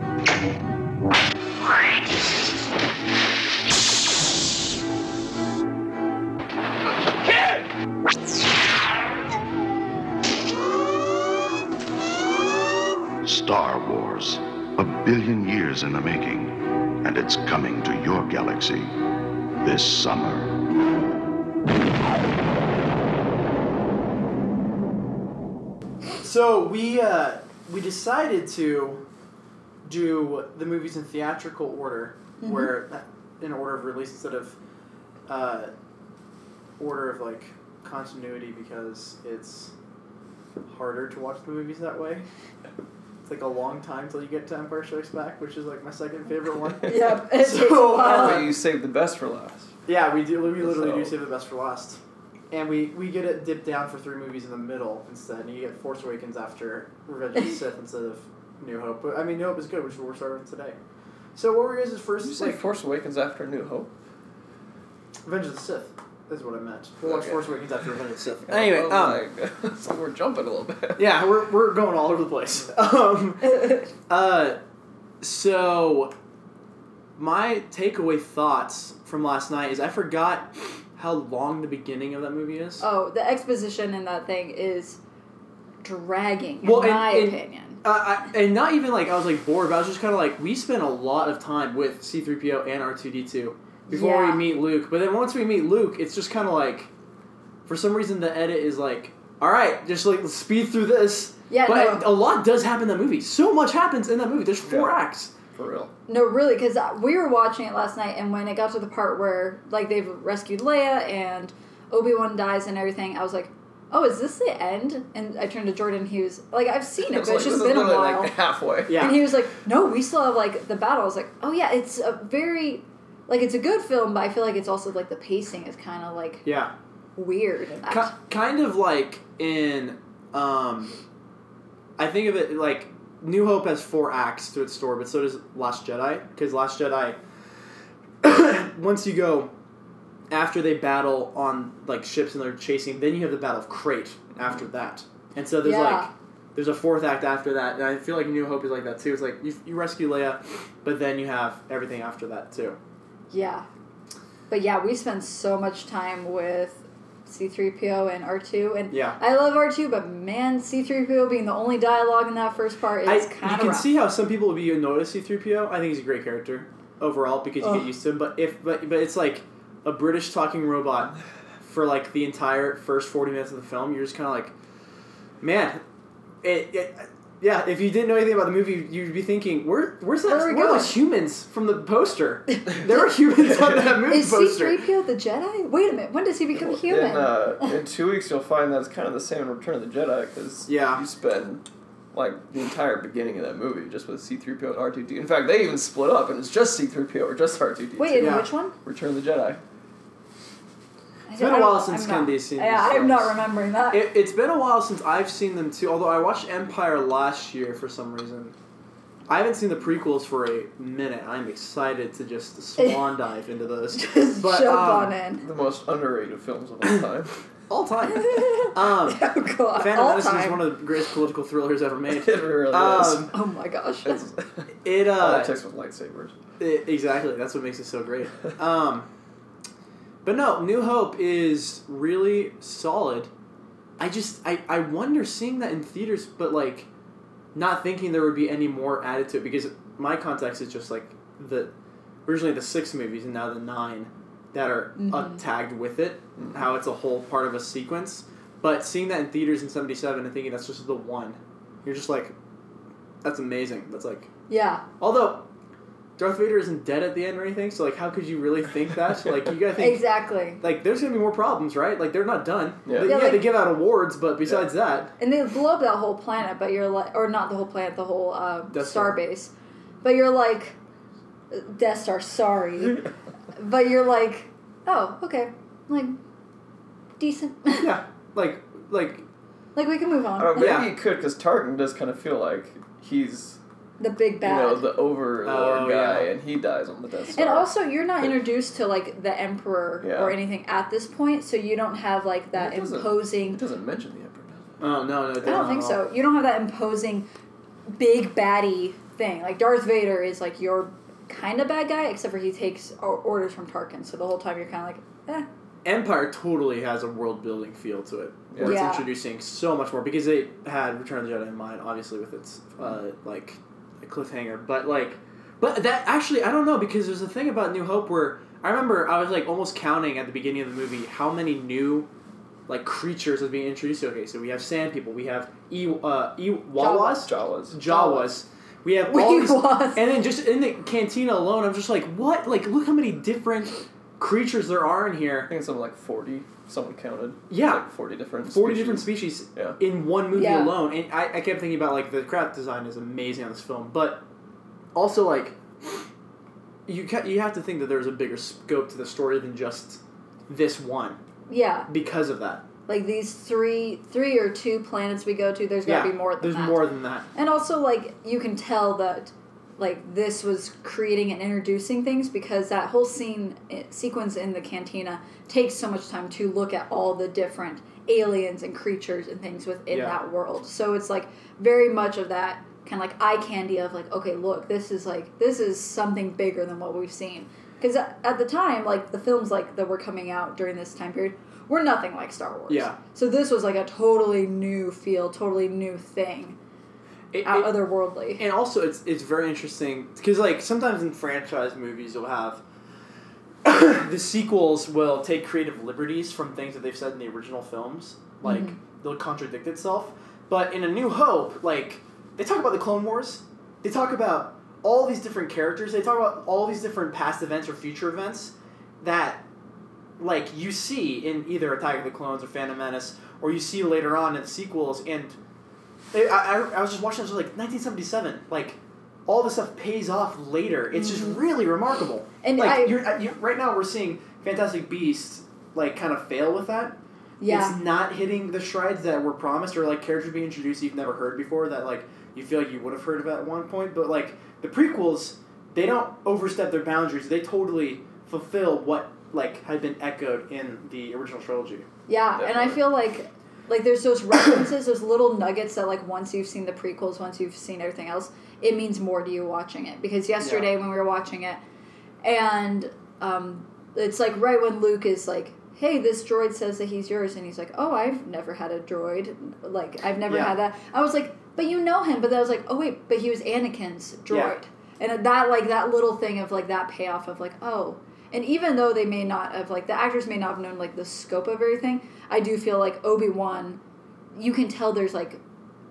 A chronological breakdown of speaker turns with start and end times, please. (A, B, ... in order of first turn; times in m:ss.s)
0:13.2-0:19.0 A
0:19.6-0:20.6 A
0:26.2-0:29.0 B
0:29.8-0:34.6 B
0:32.4-0:32.7 C
0:35.3-0:35.7 B
0:36.8-0:39.7 B
0:40.6-0:42.2 B
0:43.2-0:48.5 B
0:46.8-0:48.5 C
0:47.9-0:49.7 D
0:49.9-0:52.0 B
0:50.6-0:51.1 D
0:52.5-1:00.8 B
1:01.3-1:02.6 B
1:02.2-1:03.9 D
1:05.2-1:09.2 B
1:07.0-1:07.9 D
1:08.4-1:11.2 D
1:11.0-1:14.6 B
1:13.4-1:13.9 C
1:15.2-1:16.1 B
1:17.2-1:22.8 B
1:22.8-1:25.0 C
1:25.8-1:27.8 C
1:26.6-1:36.9 B
1:33.9-1:34.4 C
1:37.6-1:45.3 B
1:41.5-1:42.1 C
1:44.6-1:44.9 D
1:45.5-1:45.9 D
1:46.1-1:58.3 C
1:57.0-1:59.2 D
1:58.9-1:59.3 B
1:58.9-2:06.4 C
2:06.4-2:06.7 B
2:07.2-2:08.1 C
2:07.8-2:10.9 B
2:12.0-2:17.2 B
2:18.2-2:19.5 B
2:20.3-2:32.8 B
2:25.6-2:26.1 C
2:33.3-2:33.6 C
2:34.5-2:43.9 C
2:38.9-2:39.2 B
2:43.0-2:54.5 B
2:55.4-2:55.8 B
2:56.4-3:04.8 B
3:00.2-3:01.0 C
3:03.3-3:04.0 D
3:04.0-3:07.7 C
3:06.5-3:19.6 D
3:10.7-3:11.0 B
3:18.0-3:18.8 C
3:18.1-3:18.5 B
3:21.3-3:24.1 C
3:21.4-3:23.4 B
3:23.9-3:28.5 B
3:29.3-3:35.1 B
3:32.8-3:33.0 C
3:33.9-3:35.4 C
3:35.4-3:37.4 D
3:37.7-3:39.2 B
3:38.1-3:40.6 C
3:39.7-3:43.3 B
3:42.1-3:43.3 D
3:43.3-3:44.2 C
3:44.0-3:46.3 D
3:44.8-3:45.5 B
3:46.6-3:49.0 B
3:50.2-3:53.3 B
3:54.0-3:56.9 B
3:57.5-4:01.7 B
4:02.2-4:12.3 B
4:05.0-4:05.4 C
4:13.2-4:14.3 B
4:14.5-4:14.8 C
4:15.0-4:15.4 B
4:16.2-4:20.1 B
4:19.8-4:20.6 C
4:20.6-4:25.1 B
4:22.9-4:23.2 D
4:23.0-4:23.5 C
4:25.2-4:29.5 C
4:28.7-4:29.2 B
4:30.0-4:30.7 C
4:31.5-4:36.2 C
4:37.2-4:37.9 C
4:37.7-4:39.2 B
4:39.7-4:40.9 C
4:40.4-4:43.6 D
4:40.6-4:40.8 B
4:44.0-4:44.9 C
4:44.4-4:48.4 D
4:45.4-4:46.3 B
4:47.3-4:53.6 C
4:50.0-4:50.4 D
4:52.5-4:55.8 D
4:54.8-4:56.0 B
4:55.4-4:57.3 C
4:57.9-5:05.5 C
5:05.8-5:22.1 B
5:08.5-5:08.8 D
5:08.6-5:09.1 C
5:22.7-5:35.5 B
5:26.8-5:27.3 C
5:27.2-5:27.7 D
5:27.8-5:28.3 C
5:29.1-5:30.1 C
5:35.5-5:39.8 D
5:37.5-5:37.8 B
5:38.4-5:44.2 B
5:40.3-5:40.7 C
5:44.9-5:46.0 B
5:46.9-5:51.2 B
5:51.5-5:51.9 C
5:51.9-5:52.6 B
5:52.9-5:56.8 C
5:55.8-5:57.3 B
5:57.3-6:26.6 C
6:09.9-6:10.2 B
6:22.7-6:23.0 B
6:27.3-6:27.7 B
6:27.4-6:28.4 C
6:28.4-6:32.6 B
6:33.6-6:49.4 B
6:38.4-6:38.8 C
6:50.2-6:55.4 B
6:56.1-7:21.9 B
7:00.9-7:01.4 C
7:02.4-7:03.0 C
7:07.4-7:07.7 C
7:22.1-7:31.6 C
7:22.4-7:22.7 D
7:30.4-7:30.7 B
7:32.2-7:53.8 C
7:40.3-7:40.5 B
7:44.3-7:44.5 B
7:54.3-7:55.4 C